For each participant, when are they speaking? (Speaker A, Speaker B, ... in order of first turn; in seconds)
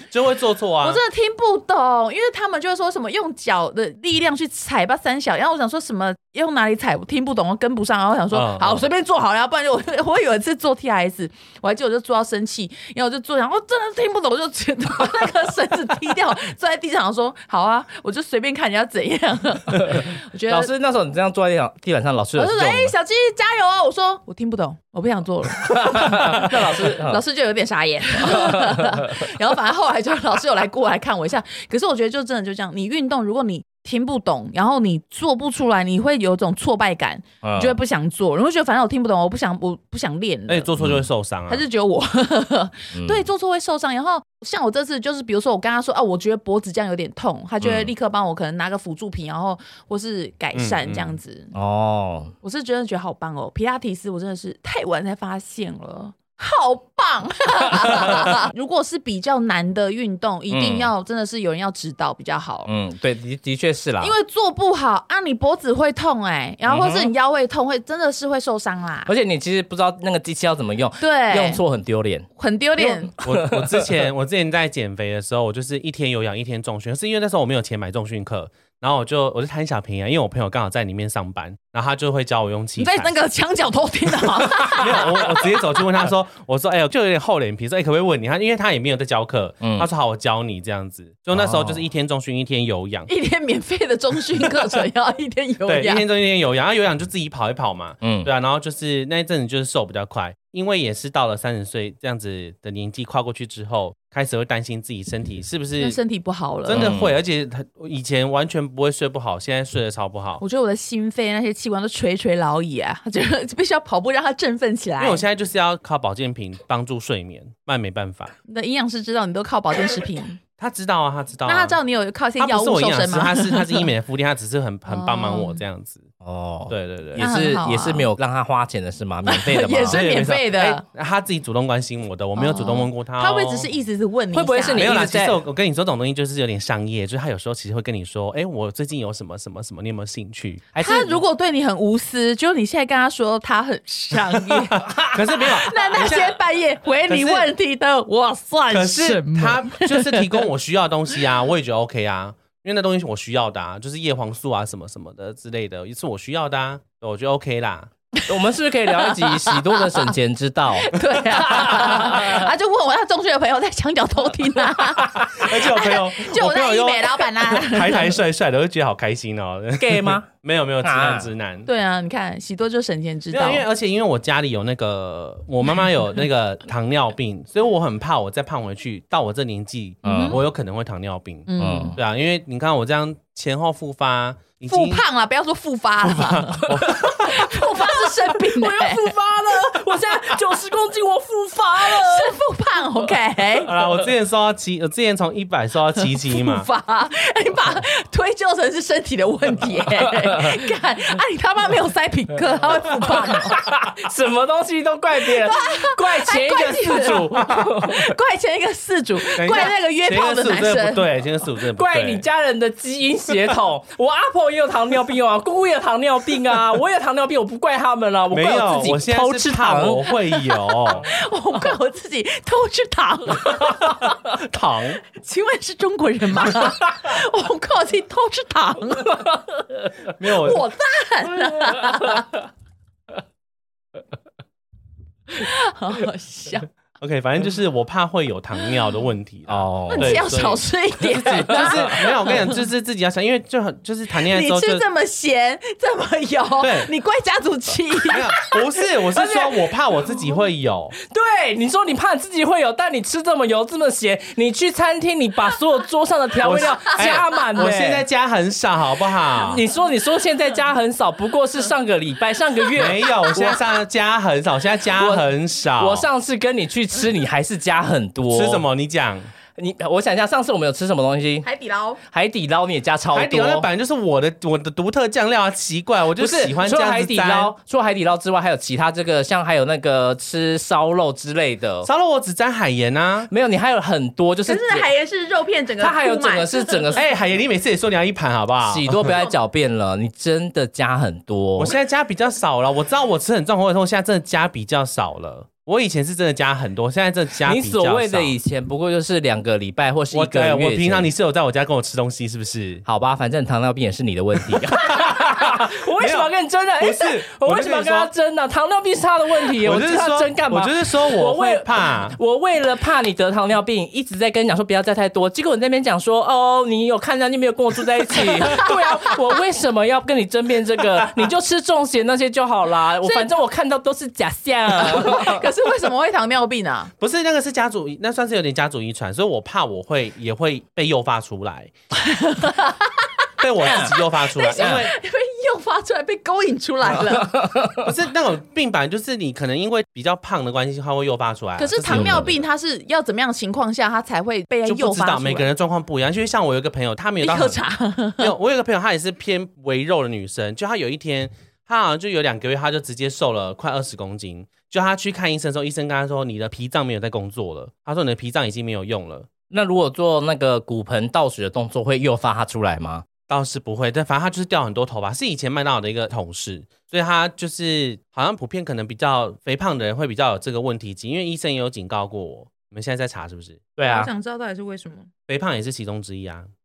Speaker A: 0.1-1.0, 8.3-8.8, 40.5-41.6, 50.5-51.2, 73.2-83.1, 84.6-93.1, 95.7-106.0, 106.7-110.4, 115.0-118.3, 120.6-121.8, 122.4-126.0, 126.7-127.2, 129.9-133.7, 134.8-140.7, 144.3-146.4, 147.1-147.5, 148.7-157.9, 165.3-171.7, 173.3-185.0, 186.0-187.6, 193.6-196.7, 207.0-207.4, 209.3-212.2, 218.3-221.1, 224.3-225.0, 230.1-230.7, 237.0-244.8, 246.6-246.9, 248.1-250.9, 256.4-259.6, 262.8-266.1, 268.3-269.3, 273.1-277.5, 281.8-283.3, 286.9-289.2, 291.6-298.4, 300.1-302.8, 304.5-308.1, 309.6-312.2, 327.0-331.7, 333.4-334.9, 337.8-342.4, 344.6-347.6, 348.2-359.3, 363.3-373.7, 375.3-376.5
Speaker B: 0.8-20.7, 22.4-40.7, 41.5-51.5, 52.4-62.7, 64.0-69.1, 71.0-71.6, 72.4-73.1, 82.8-85.5, 93.1-96.0, 105.8-106.9, 110.4-115.2, 118.5-120.4, 121.5-123.9, 124.9-125.6, 127.2-128.1, 129.3-130.8, 132.4-135.0, 140.8-150.5, 159.0-160.1, 160.8-168.2, 171.7-173.6, 180.0-180.4, 181.5-181.9, 184.7-186.7, 187.2-190.4, 191.8-193.8, 196.0-203.7, 205.3-211.1, 220.1-224.2, 225.1-229.4, 230.2-232.3, 235.3-236.7, 239.9-242.6, 244.1-248.6, 249.1-249.5, 271.4-272.0, 284.4-287.0, 318.4-318.7, 323.0-323.3, 324.7-326.9, 332.0-333.1, 333.7-337.4, 341.6-345.5, 347.2-348.3, 373.8-375.1
Speaker C: 19.8-22.9, 25.6-27.2, 28.2-29.3, 37.4-37.8, 40.8-41.1, 42.9-43.3, 47.6-47.9, 51.5-52.3, 60.5-60.9, 62.6-64.1, 66.7-67.1, 69.0-72.3, 72.8-73.9, 89.6-89.9, 91.3-91.8, 98.0-98.3, 106.7-107.1, 126.2-130.2, 134.3-135.4, 140.8-141.2, 144.8-145.4, 158.3-162.4, 169.8-170.3, 170.8-171.3, 180.0-180.4, 181.6-182.0, 186.6-192.4, 200.0-200.5, 203.0-208.1, 211.8-220.1, 231.7-232.2, 239.5-240.2, 241.4-241.9, 251.0-258.1, 259.4-263.6, 265.0-268.6, 269.6-271.5, 272.1-273.7, 276.2-281.9, 283.3-284.9, 285.8-287.0, 288.6-291.7, 297.4-301.1, 302.9-325.4, 333.6-333.9, 334.6-334.8, 337.1-337.9, 341.9-342.3, 359.5-363.0, 373.8-374.1